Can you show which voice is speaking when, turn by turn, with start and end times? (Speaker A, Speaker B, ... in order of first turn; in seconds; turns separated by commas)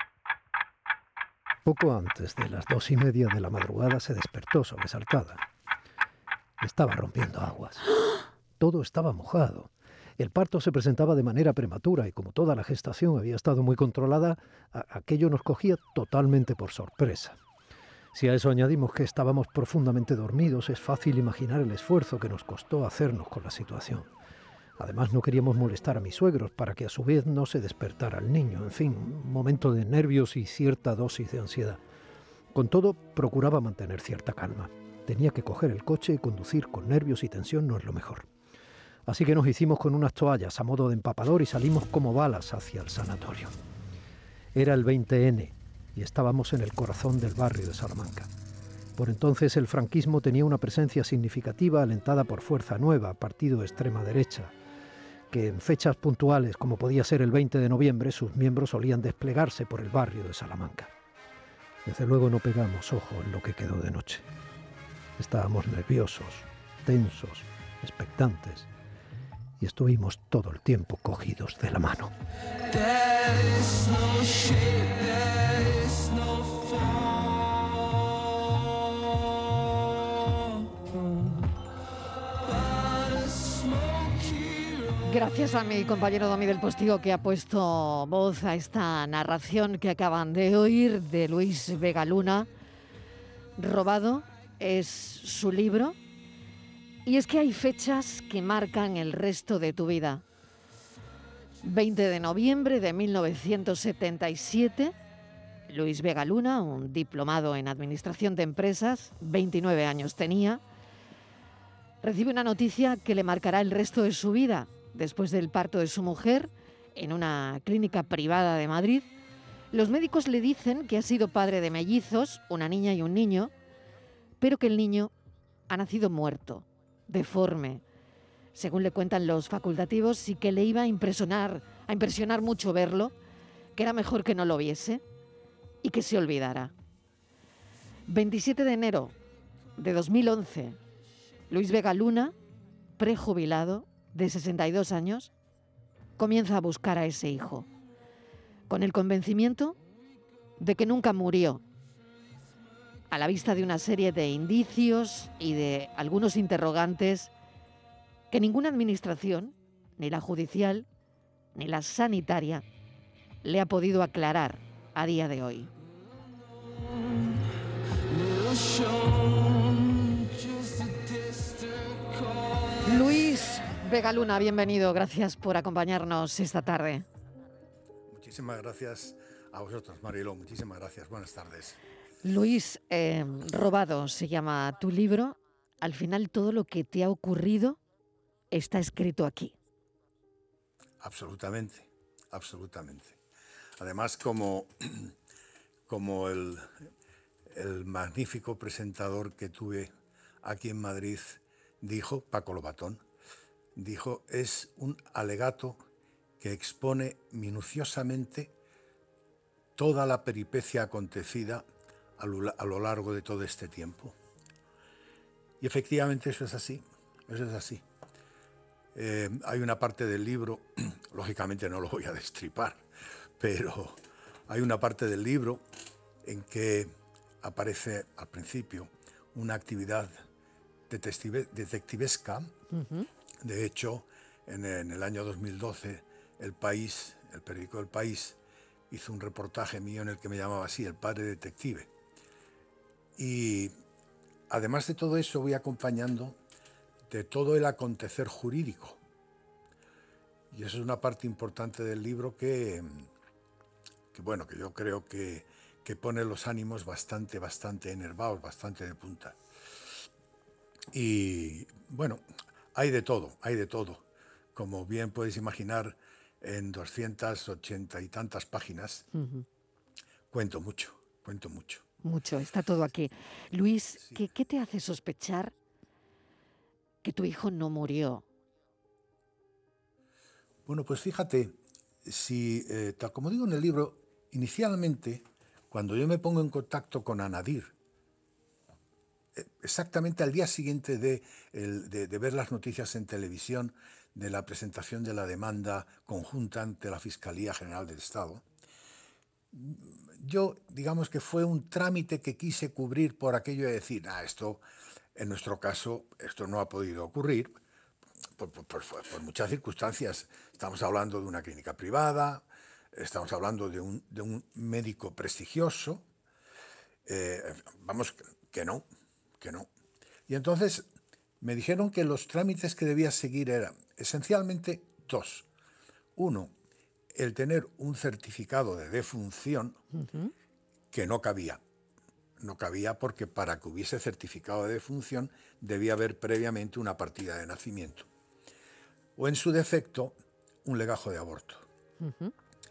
Speaker A: 1.6-5.4, Speaker A: 6.6-8.0, Speaker A: 8.6-17.4, Speaker A: 18.1-24.1, Speaker A: 24.8-31.8, Speaker A: 32.5-38.3, Speaker A: 39.1-43.5, Speaker A: 44.5-48.3, Speaker A: 49.0-54.5, Speaker A: 55.3-60.9, Speaker A: 61.9-64.3, Speaker A: 65.2-68.7, Speaker A: 69.6-72.1, Speaker B: 85.0-92.5, Speaker B: 93.6-96.0, Speaker B: 97.0-100.2, Speaker B: 101.6-104.9, Speaker B: 105.7-110.6, Speaker B: 112.0-119.1, Speaker B: 119.7-123.5, Speaker B: 124.4-125.1, Speaker B: 125.7-127.8, Speaker B: 128.6-133.1, Speaker B: 133.8-135.0, Speaker B: 135.8-136.7, Speaker B: 138.1-139.2, Speaker B: 139.8-140.8, Speaker B: 141.5-142.3, Speaker B: 143.0-145.3, Speaker B: 146.2-147.7, Speaker B: 148.7-149.8, Speaker B: 150.6-151.6, Speaker B: 153.1-157.3, Speaker B: 158.3-160.9, Speaker B: 161.6-162.6, Speaker B: 163.4-165.7, Speaker B: 172.8-177.1, Speaker C: 178.1-181.8, Speaker B: 182.2-187.8, Speaker B: 188.5-189.6, Speaker C: 191.0-193.2, Speaker C: 193.8-195.2, Speaker C: 195.9-196.8, Speaker C: 197.5-203.0, Speaker C: 203.8-205.8, Speaker C: 206.4-208.5, Speaker C: 209.8-211.7, Speaker C: 212.2-214.2, Speaker C: 215.6-217.8, Speaker C: 218.9-222.8, Speaker C: 223.4-225.6, Speaker C: 226.2-230.2, Speaker C: 230.9-232.6, Speaker B: 232.7-233.1, Speaker C: 233.4-238.4, Speaker C: 238.9-241.9, Speaker C: 243.2-243.7, Speaker C: 244.5-246.4, Speaker C: 247.1-249.0, Speaker C: 250.5-253.1, Speaker C: 254.1-259.4, Speaker C: 260.9-262.2, Speaker C: 262.7-269.1, Speaker B: 269.1-269.4, Speaker C: 270.3-271.9, Speaker B: 272.0-275.5, Speaker B: 277.0-278.2, Speaker C: 280.7-287.8, Speaker C: 289.4-298.4, Speaker C: 299.5-304.6, Speaker C: 305.1-307.6, Speaker C: 308.4-316.1, Speaker C: 317.1-318.9, Speaker C: 319.4-319.7, Speaker C: 320.3-320.9, Speaker C: 321.4-325.5, Speaker C: 326.2-326.5, Speaker C: 327.1-329.8, Speaker B: 329.9-330.3, Speaker C: 330.9-331.6, Speaker C: 332.4-338.1, Speaker C: 339.2-341.7, Speaker B: 342.0-342.3